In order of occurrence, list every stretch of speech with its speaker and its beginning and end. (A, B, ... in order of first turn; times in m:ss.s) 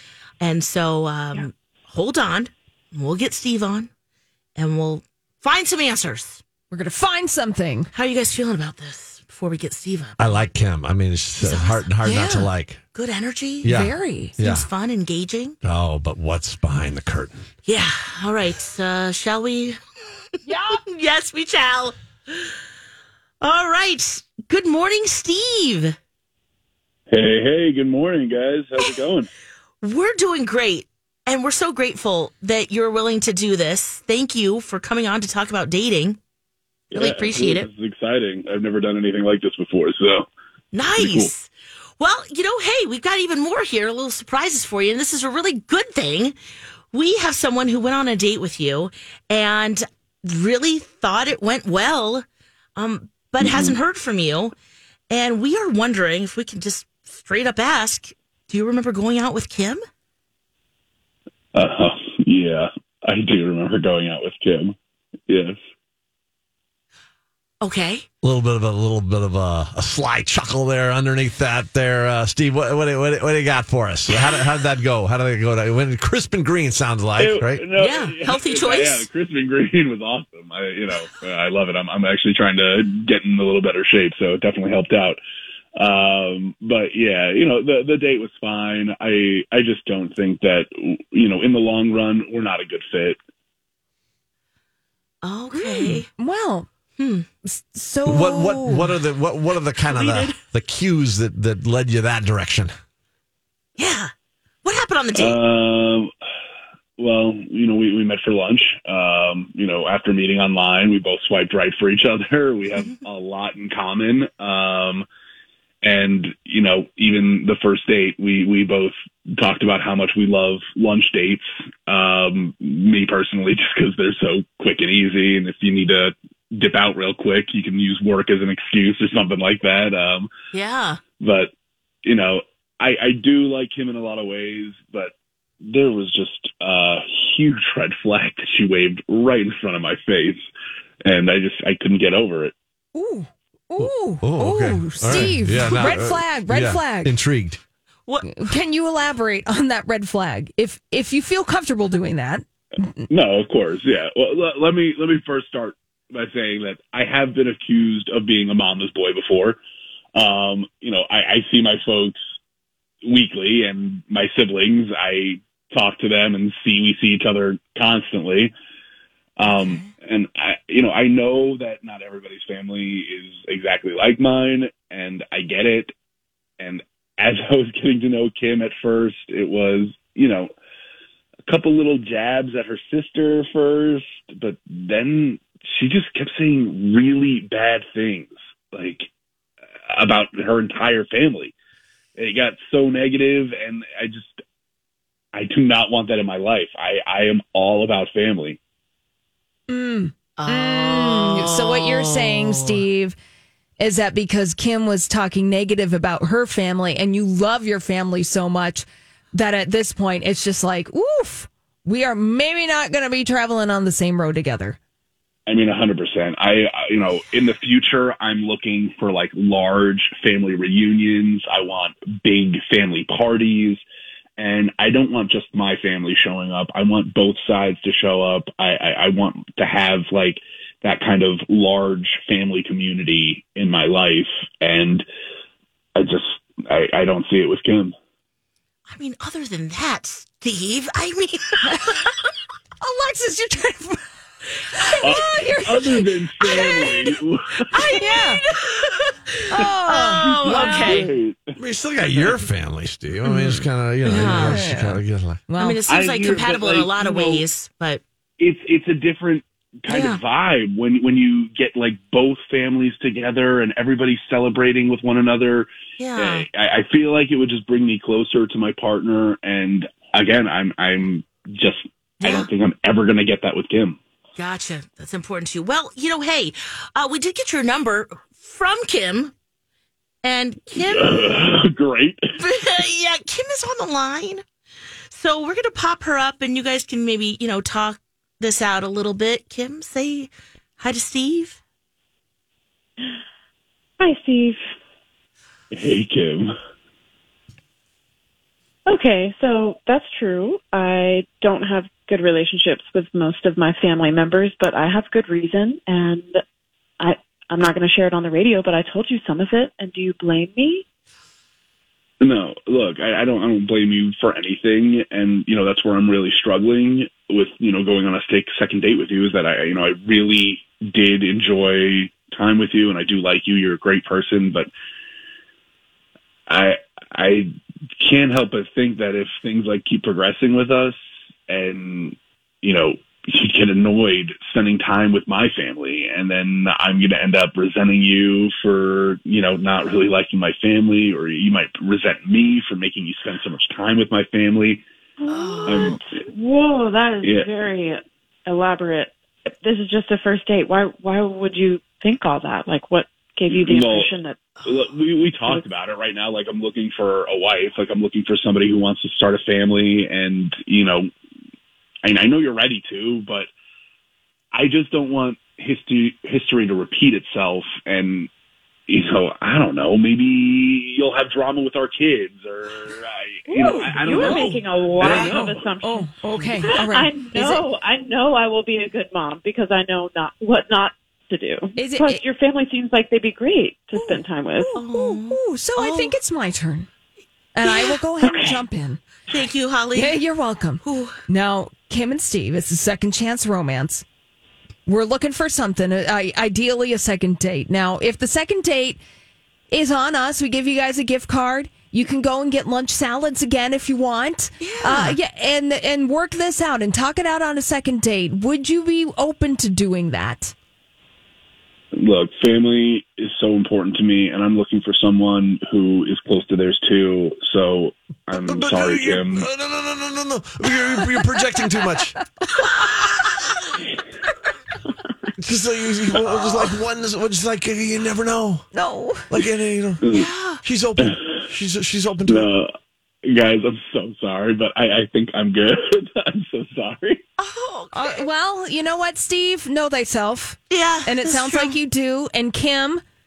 0:00.4-0:03.9 A
0:04.6-0:06.4 A
0:06.7-0:07.9 B
0:07.9-0:10.4 A
0:10.2-0:12.8 C
0:11.4-0:13.8 A
0:13.6-0:14.7 C
0:13.8-0:14.4 B
0:14.4-0:15.6 A
0:15.6-0:17.4 C
0:17.6-0:19.8 A
0:20.5-0:20.8 B
0:20.5-0:22.5 A
0:23.4-0:26.0 A
0:27.1-0:29.3 D
0:29.8-0:36.2 A
0:36.9-0:40.3 D
0:36.9-0:37.7 A
0:40.7-0:46.4 A
0:41.0-0:41.3 D
0:46.9-0:52.2 A
0:52.8-0:54.6 A
0:53.4-0:53.8 D
0:55.1-0:59.8 A
1:01.5-1:04.8 D
1:05.3-1:05.6 D
1:07.6-1:08.1 A
1:08.2-1:17.6 C
1:17.2-1:25.2 D
1:17.8-1:19.1 A
1:25.8-1:33.2 D
1:35.2-1:36.1 A
1:36.1-1:36.7 B
1:37.0-1:37.3 A
1:37.4-1:38.9 B
1:38.0-1:42.7 C
1:39.9-1:40.4 A
1:43.8-1:44.1 A
1:44.6-1:45.4 A
1:45.2-1:46.1 D
1:47.0-1:55.1 D
1:55.8-2:10.3 D
2:10.5-2:11.0 A
2:11.2-2:11.5 D
2:12.0-2:20.4 D
2:21.0-2:22.5 D
2:22.9-2:27.2 B
2:23.8-2:27.6 C
2:25.1-2:26.0 D
2:28.1-2:28.6 A
2:28.2-2:33.0 B
2:33.1-2:39.6 D
2:40.2-2:42.2 D
2:43.0-2:48.5 D
2:49.4-2:55.9 D
2:49.4-2:49.9 A
2:56.6-3:00.5 D
3:01.5-3:09.1 D
3:09.9-3:11.5 D
3:12.2-3:14.4 D
3:15.3-3:18.6 D
3:19.7-3:23.2 B
3:20.4-3:22.9 A
3:23.8-3:34.8 B
3:35.5-3:43.8 D
3:44.4-3:55.1 D
3:56.0-3:57.9 D
3:58.9-4:02.1 A
4:02.8-4:04.0 B
4:04.8-4:06.1 B
4:05.0-4:08.0 D
4:07.7-4:11.1 A
4:08.0-4:08.4 B
4:09.5-4:10.7 B
4:09.5-4:11.6 D
4:11.6-4:15.4 C
4:14.0-4:14.7 A
4:14.5-4:15.8 B
4:15.6-4:18.0 A
4:15.9-4:17.5 D
4:18.4-4:34.0 D
4:19.9-4:20.2 A
4:26.0-4:26.5 A
4:32.2-4:32.5 A
4:34.4-4:39.3 A
4:40.2-4:41.1 A
4:40.8-4:42.2 D
4:42.4-4:44.4 A
4:45.1-4:51.6 A
4:54.0-4:54.6 E
4:55.7-4:56.5 D
4:58.9-5:06.4 E
5:07.0-5:10.8 E
5:12.2-5:24.7 D
5:26.5-5:31.0 D
5:31.5-5:44.8 D
5:45.2-5:54.5 E
5:45.3-5:46.0 A
5:45.7-5:46.1 D
5:47.2-5:47.5 D
5:53.5-6:01.1 D
6:02.0-6:03.5 D
6:04.5-6:08.3 D
6:08.9-6:15.7 D
6:13.5-6:24.8 E
6:14.1-6:14.5 A
6:15.0-6:15.4 A
6:15.8-6:17.6 B
6:16.3-6:16.7 D
6:21.8-6:22.2 B
6:24.0-6:26.9 B
6:24.8-6:26.2 A
6:27.6-6:29.0 B
6:27.6-6:28.0 A
6:28.2-6:28.7 E
6:29.3-6:30.2 A
6:30.0-6:34.0 B
6:30.8-6:31.2 A
6:34.9-6:39.0 B
6:39.7-6:50.5 B
6:44.6-6:45.2 A
6:52.0-6:59.5 D
6:58.3-7:02.2 C
7:05.4-7:08.7 C
7:08.7-7:09.3 B
7:09.3-7:12.5 C
7:10.0-7:10.3 D
7:10.1-7:10.6 A
7:12.3-7:12.7 D
7:13.2-7:17.2 D
7:17.4-7:18.3 A
7:17.9-7:23.0 B
7:20.7-7:21.8 A